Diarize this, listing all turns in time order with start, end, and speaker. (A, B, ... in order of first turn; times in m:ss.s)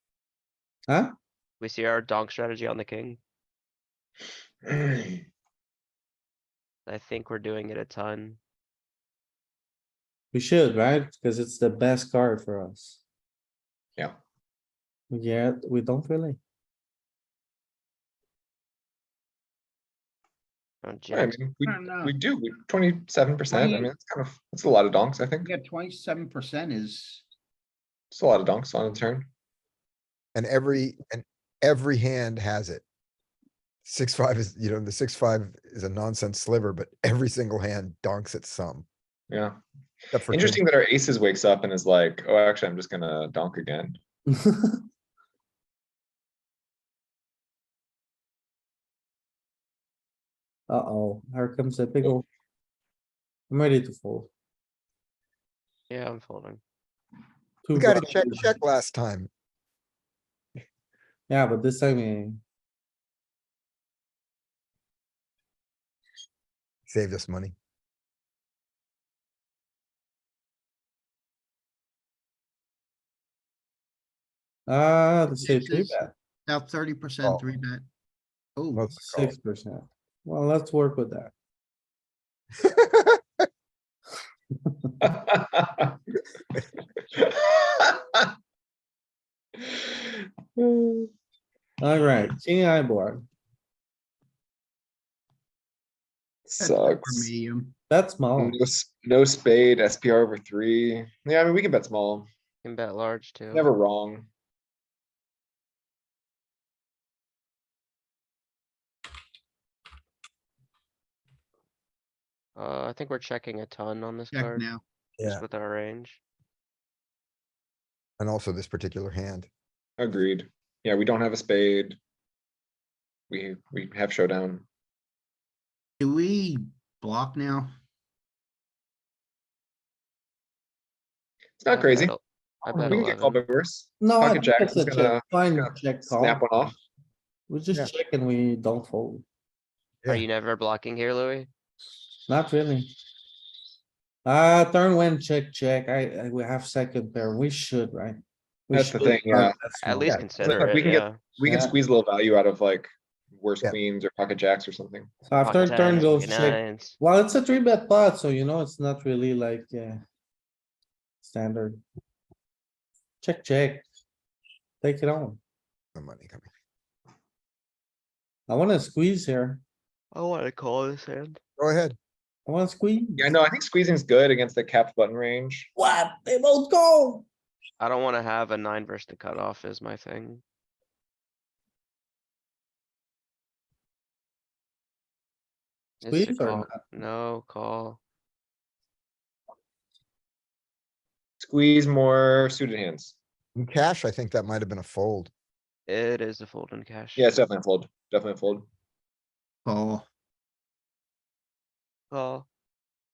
0:01.6-0:03.2 A
0:04.7-0:05.1 B
0:06.8-0:08.4 A
0:10.3-0:13.0 C
0:15.1-0:16.4 C
0:20.8-0:21.4 A
0:21.1-0:25.5 B
0:21.6-0:22.1 D
0:23.5-0:23.9 D
0:25.4-0:27.2 D
0:28.1-0:29.3 B
0:30.3-0:32.8 E
0:33.8-0:38.8 E
0:39.3-0:39.6 B
0:40.1-0:40.6 E
0:40.3-0:44.0 B
0:44.3-0:44.8 C
0:50.7-0:52.2 C
0:53.5-0:54.3 C
0:55.9-0:56.6 A
0:57.6-0:58.6 C
0:57.7-0:59.3 E
1:01.3-1:02.4 C
1:06.9-1:07.5 E
1:14.7-1:16.1 C
1:15.4-1:17.8 D
1:18.6-1:18.8 D
1:18.7-1:19.3 E
1:19.0-1:21.3 C
1:22.6-1:23.2 E
1:25.0-1:26.0 B
1:27.2-1:28.2 B
1:30.6-1:31.1 B
1:31.8-1:33.2 C
1:36.5-1:37.3 B
1:36.6-1:37.7 D
1:37.9-1:38.6 C
1:38.4-1:42.3 B
1:42.6-1:43.7 A
1:43.5-1:44.3 B
1:52.6-1:54.6 A
1:54.3-1:54.8 D
1:55.2-1:56.2 A
1:58.2-1:59.5 E
2:00.0-2:02.0 B
2:03.3-2:04.6 B
2:06.0-2:07.7 D
2:11.6-2:12.2 B
2:11.7-2:13.4 A
2:12.7-2:13.0 C
2:12.8-2:16.8 B
2:14.0-2:16.4 C
2:17.5-2:19.2 C
2:20.1-2:21.5 A
2:22.3-2:22.9 C
2:24.2-2:30.2 C
2:28.7-2:29.6 B
2:29.8-2:31.2 A
2:30.4-2:35.1 B
2:31.4-2:31.7 C
2:35.2-2:40.0 C
2:35.4-2:37.0 A
2:41.2-2:41.8 C
2:43.2-2:43.8 C
2:44.8-2:45.4 C
2:45.9-2:46.4 E
2:48.5-2:49.6 C
2:50.1-2:51.4 A
2:51.6-2:52.0 E
2:52.4-2:53.3 C
2:53.2-2:55.7 B
2:55.8-2:57.2 C
2:57.8-3:00.4 A
3:06.0-3:08.0 A
3:06.0-3:06.8 C
3:11.4-3:13.2 B
3:13.6-3:15.3 E
3:15.9-3:17.4 A
3:17.2-3:18.6 B
3:19.6-3:20.0 D
3:22.1-3:22.4 A